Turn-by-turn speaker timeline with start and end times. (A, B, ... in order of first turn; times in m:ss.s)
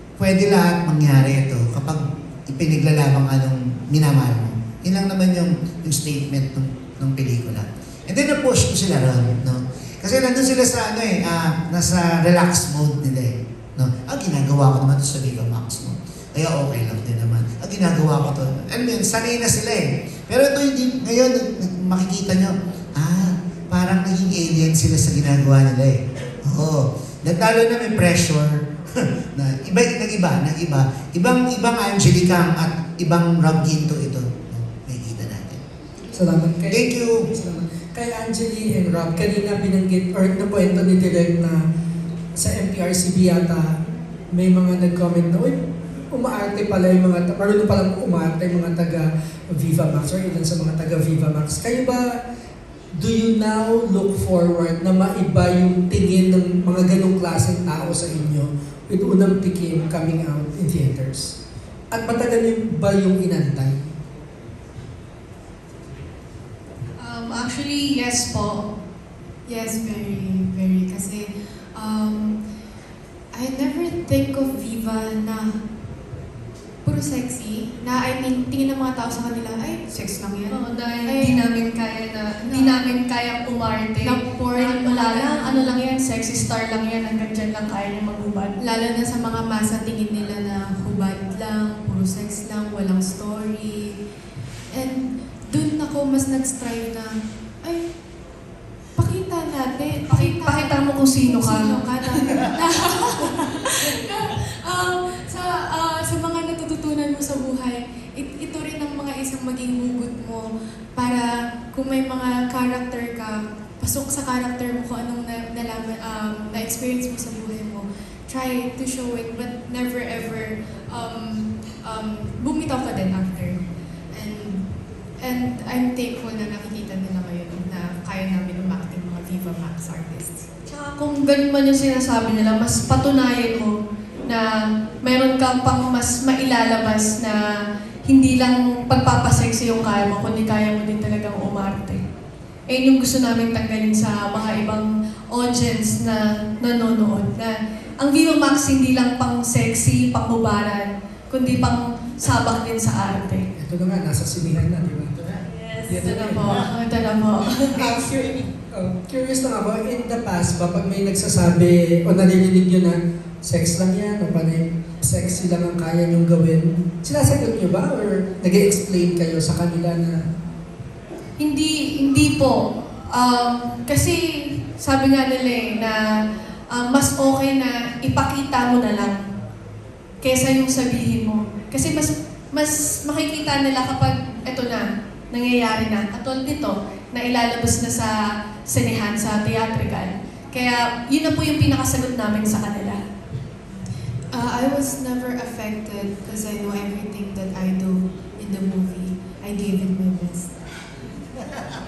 0:00.2-0:35.6 A
0:36.1-0:41.6 B
0:36.7-0:37.2 A
0:42.4-0:43.7 B
0:44.3-0:45.6 B
0:46.1-0:52.2 B
0:53.0-1:01.4 B
1:01.9-1:03.9 B
1:07.0-1:08.6 C
1:09.5-1:12.4 D
1:13.3-1:15.6 D
1:16.8-1:21.4 D
1:20.5-1:28.5 C
1:22.4-1:22.9 D
1:24.0-1:25.8 D
1:28.6-1:34.0 D
1:34.7-1:37.1 D
1:37.6-1:37.9 D
1:39.0-2:10.5 D
1:40.1-1:42.4 C
2:10.7-2:13.7 C
2:15.0-2:17.4 C
2:18.0-2:22.0 C
2:22.7-2:33.4 C
2:33.6-2:36.6 B
2:35.6-2:38.0 C
2:37.8-2:38.4 A
2:38.0-2:50.2 B
2:51.4-2:52.6 C
2:53.1-2:56.0 C
2:56.7-2:59.2 C
3:00.2-3:08.1 C
3:08.7-3:13.0 C
3:14.3-3:20.5 D